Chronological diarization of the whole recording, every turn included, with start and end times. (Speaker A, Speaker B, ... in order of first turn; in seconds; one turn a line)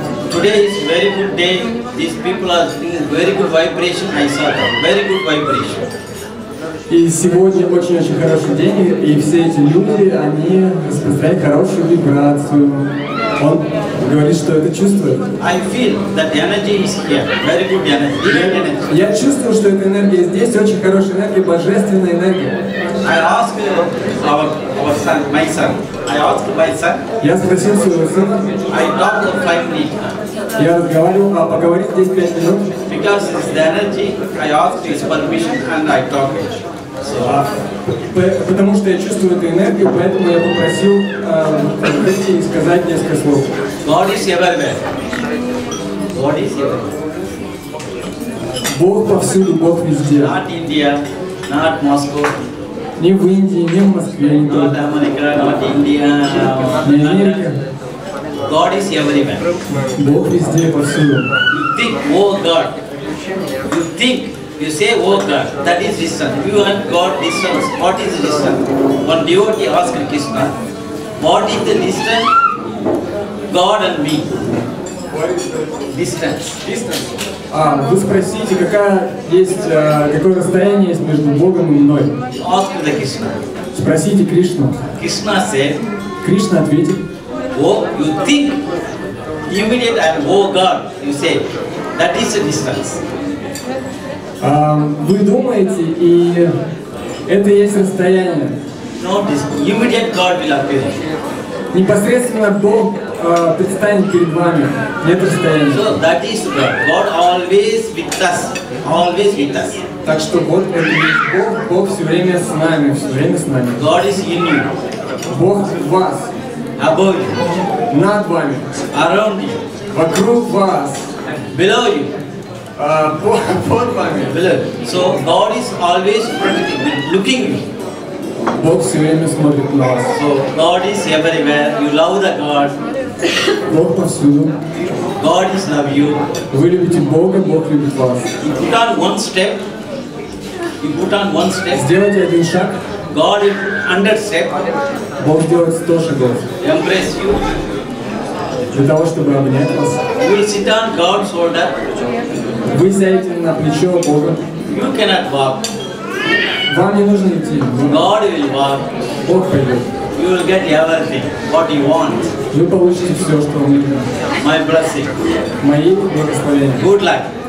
Speaker A: 0.3-5.9
Speaker B: 6.9-15.2
Speaker A: 15.4-19.0
Speaker B: 18.2-22.6
Speaker A: 23.0-27.0
Speaker B: 27.2-28.5
Speaker A: 28.7-30.1
Speaker B: 30.6-32.7
Speaker A: 32.9-37.4
Speaker B: 37.2-43.5
Speaker A: 43.8-44.8
Speaker A: 46.1-46.9
Speaker B: 48.7-50.3
Speaker A: 50.2-52.3
Speaker B: 53.0-54.7
Speaker A: 54.4-57.5
Speaker B: 56.8-57.5
Speaker A: 58.4-59.4
Speaker B: 59.8-61.3
Speaker A: 61.5-62.8
Speaker A: 63.7-70.5
Speaker A: 71.2-72.3
Speaker A: 73.5-74.3
Speaker B: 75.1-75.9
Speaker A: 75.9-76.6
Speaker B: 76.6-82.1
Speaker A: 82.3-83.4
Speaker B: 83.7-84.8
Speaker A: 85.0-85.8
Speaker B: 86.2-87.0
Speaker A: 87.5-88.6
Speaker A: 89.5-93.0
Speaker B: 94.4-96.5
Speaker B: 97.3-98.6
Speaker A: 99.0-101.0
Speaker B: 101.7-106.0
Speaker A: 105.7-109.8
Speaker B: 110.0-113.8
Speaker A: 113.8-114.7
Speaker B: 115.2-116.3
Speaker A: 116.8-117.5
Speaker B: 117.9-118.7
Speaker A: 118.9-119.6
Speaker B: 119.9-121.1
Speaker A: 121.5-122.1
Speaker B: 122.8-124.3
Speaker A: 124.3-127.7
Speaker B: 128.6-130.2
Speaker A: 130.1-132.7
Speaker B: 133.7-134.5
Speaker A: 135.2-136.2
Speaker B: 136.5-138.3
Speaker A: 138.4-139.6
Speaker A: 140.8-141.9
Speaker B: 141.7-142.8
Speaker A: 143.1-144.6
Speaker B: 145.2-146.4
Speaker A: 146.6-147.4
Speaker B: 148.7-150.0
Speaker A: 150.2-151.8
Speaker B: 152.7-154.4
Speaker A: 154.7-155.7
Speaker B: 156.7-158.0
Speaker A: 157.8-158.9
Speaker B: 159.2-159.8
Speaker A: 160.1-162.3
Speaker B: 162.5-164.1
Speaker A: 164.4-165.1
Speaker B: 165.6-166.8
Speaker A: 166.8-167.3